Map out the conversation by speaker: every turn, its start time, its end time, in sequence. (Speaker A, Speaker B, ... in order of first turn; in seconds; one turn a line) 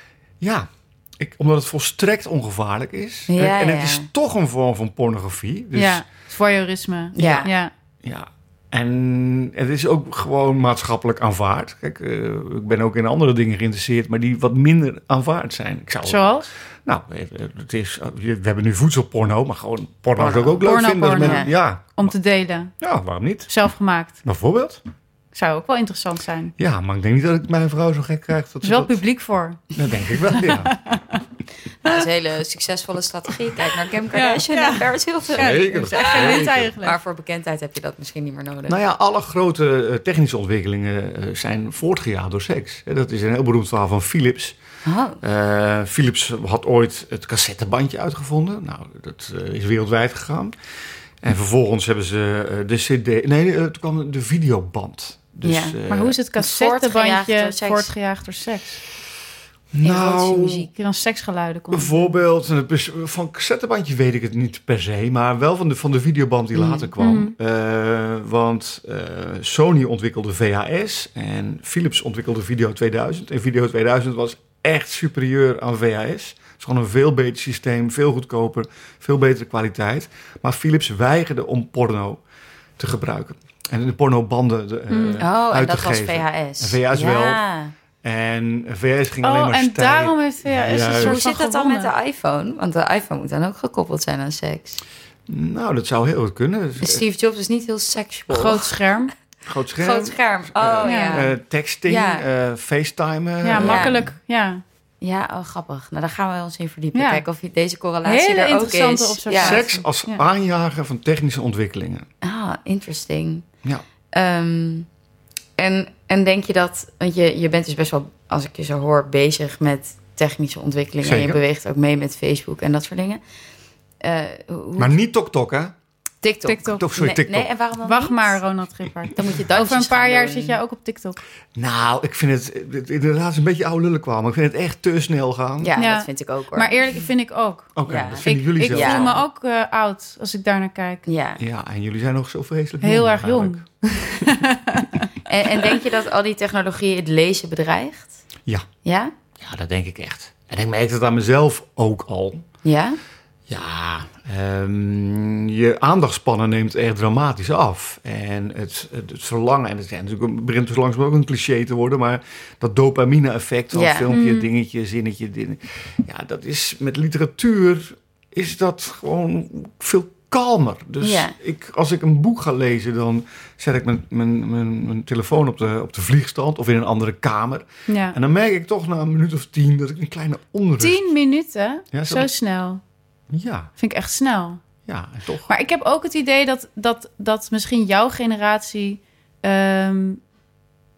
Speaker A: 0.4-6.0
Speaker B: 3.3-4.1
Speaker C: 5.7-7.7
Speaker B: 7.1-7.5
Speaker A: 7.2-7.4
Speaker A: 8.0-22.1
Speaker C: 16.0-16.5
Speaker B: 20.2-20.7
Speaker C: 20.6-22.7
Speaker B: 21.2-21.5
Speaker A: 22.8-23.5
Speaker C: 23.5-24.2
Speaker A: 24.2-24.8
Speaker C: 25.3-26.5
Speaker A: 26.6-29.0
Speaker C: 28.6-29.7
Speaker A: 29.7-30.8
Speaker C: 30.3-31.0
Speaker B: 31.8-38.8
Speaker C: 34.1-37.0
Speaker A: 35.3-36.7
Speaker A: 38.7-44.6
Speaker B: 44.8-45.2
Speaker A: 45.2-50.5
Speaker A: 51.2-56.1
Speaker B: 55.4-55.8
Speaker C: 55.9-58.8
Speaker B: 56.4-57.9
Speaker A: 59.7-60.7
Speaker B: 59.8-60.6
Speaker C: 60.3-62.2
Speaker A: 61.7-82.2
Speaker B: 66.5-66.9
Speaker C: 67.0-67.3
Speaker A: 82.8-87.4
Speaker C: 84.9-85.2
Speaker B: 85.2-87.7
Speaker A: 88.0-91.2
Speaker C: 89.2-91.9
Speaker B: 90.7-94.8
Speaker A: 95.3-97.0
Speaker B: 96.8-98.7
Speaker C: 98.3-99.1
Speaker A: 99.5-104.1
Speaker B: 99.8-101.3
Speaker C: 100.8-101.3
Speaker B: 101.8-102.2
Speaker C: 103.4-104.6
Speaker B: 103.5-104.1
Speaker B: 105.0-109.7
Speaker C: 106.9-107.2
Speaker C: 108.0-110.2
Speaker A: 109.3-112.1
Speaker B: 112.2-113.5
Speaker B: 114.1-114.9
Speaker B: 115.6-123.2
Speaker A: 121.0-121.4
Speaker B: 124.0-124.9
Speaker A: 124.8-125.7
Speaker B: 126.2-128.4
Speaker C: 126.5-126.8
Speaker A: 126.7-127.5
Speaker C: 127.8-131.2
Speaker B: 129.1-130.6
Speaker A: 131.5-135.7
Speaker B: 135.6-136.8
Speaker C: 135.8-141.0
Speaker A: 137.8-139.3
Speaker B: 137.8-139.1
Speaker B: 141.1-141.4
Speaker A: 141.4-143.6
Speaker C: 142.8-145.1
Speaker B: 145.2-148.2
Speaker B: 148.8-149.1
Speaker A: 149.4-152.4
Speaker B: 152.6-153.0
Speaker A: 153.5-181.0
Speaker B: 163.7-164.1
Speaker C: 164.1-164.5
Speaker B: 171.0-171.3
Speaker C: 177.9-178.2
Speaker C: 180.8-182.8
Speaker A: 181.9-182.3
Speaker A: 183.3-183.7
Speaker C: 183.8-184.6
Speaker A: 184.8-185.5
Speaker C: 185.5-190.2